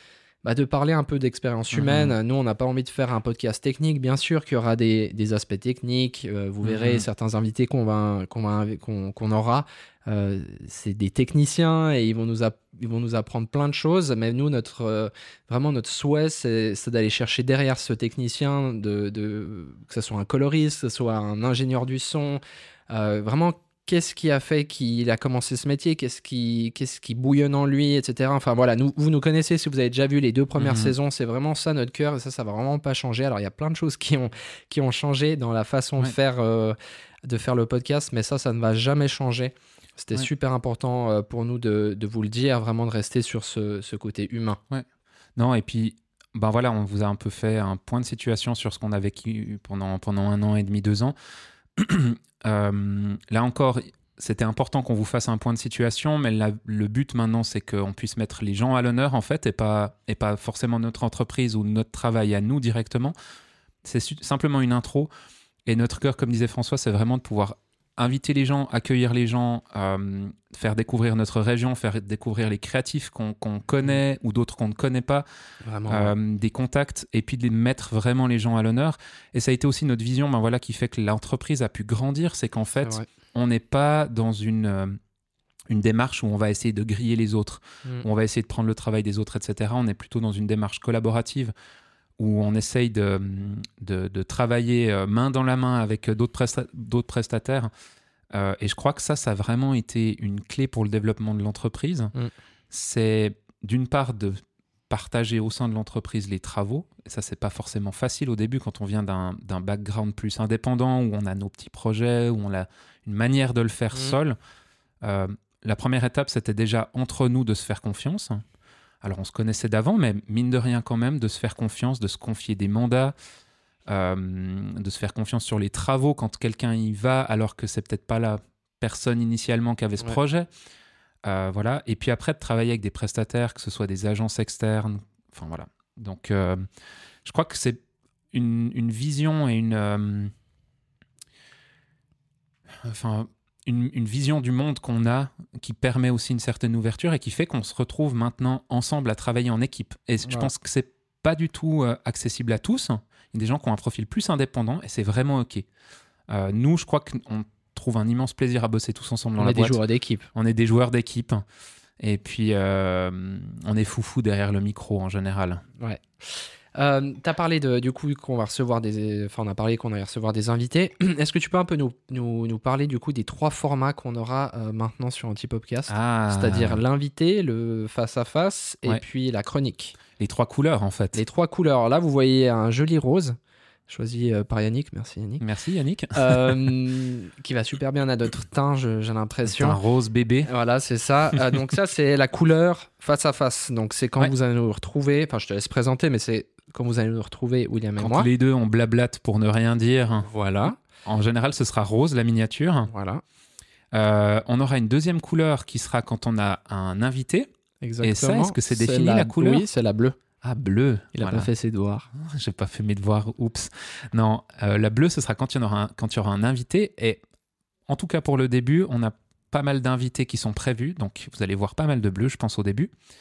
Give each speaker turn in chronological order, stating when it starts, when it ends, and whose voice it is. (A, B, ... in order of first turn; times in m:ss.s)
0:00.4-0:44.6 A
0:01.7-0:02.2 B
0:06.6-0:07.0 B
0:30.6-0:30.9 B
0:44.7-0:51.1 B
0:51.7-1:03.1 B
1:03.8-1:05.1 B
1:05.6-1:15.2 B
1:15.6-1:16.1 A
1:15.9-1:25.0 B
1:25.7-1:31.5 B
1:32.2-1:37.7 B
1:38.3-1:42.1 B
1:42.7-1:54.4 B
1:55.0-1:58.4 B
1:59.0-2:03.1 B
2:03.9-2:10.5 B
2:11.2-2:16.6 B
2:17.2-2:17.8 B
2:18.3-2:20.3 B
2:22.7-2:35.6 B
2:30.2-2:30.5 A
2:36.3-2:39.8 B
2:39.4-2:40.3 A
2:40.3-2:41.4 B
2:42.0-2:45.6 B
2:45.8-3:00.0 A
2:55.9-2:56.8 B
3:00.2-3:01.2 B
3:01.1-3:03.4 A
3:03.9-3:05.4 A
3:05.4-3:06.6 B
3:06.1-3:09.8 A
3:09.5-3:10.5 B
3:10.4-3:18.3 A
3:18.0-3:20.3 B
3:20.3-3:20.8 A
3:21.0-3:22.9 B
3:22.9-3:23.2 A
3:23.9-3:27.5 B
3:27.8-3:30.2 A
3:28.0-3:29.6 B
3:30.4-3:31.5 B
3:31.1-3:32.1 A
3:32.1-3:37.2 B
3:37.9-3:42.9 B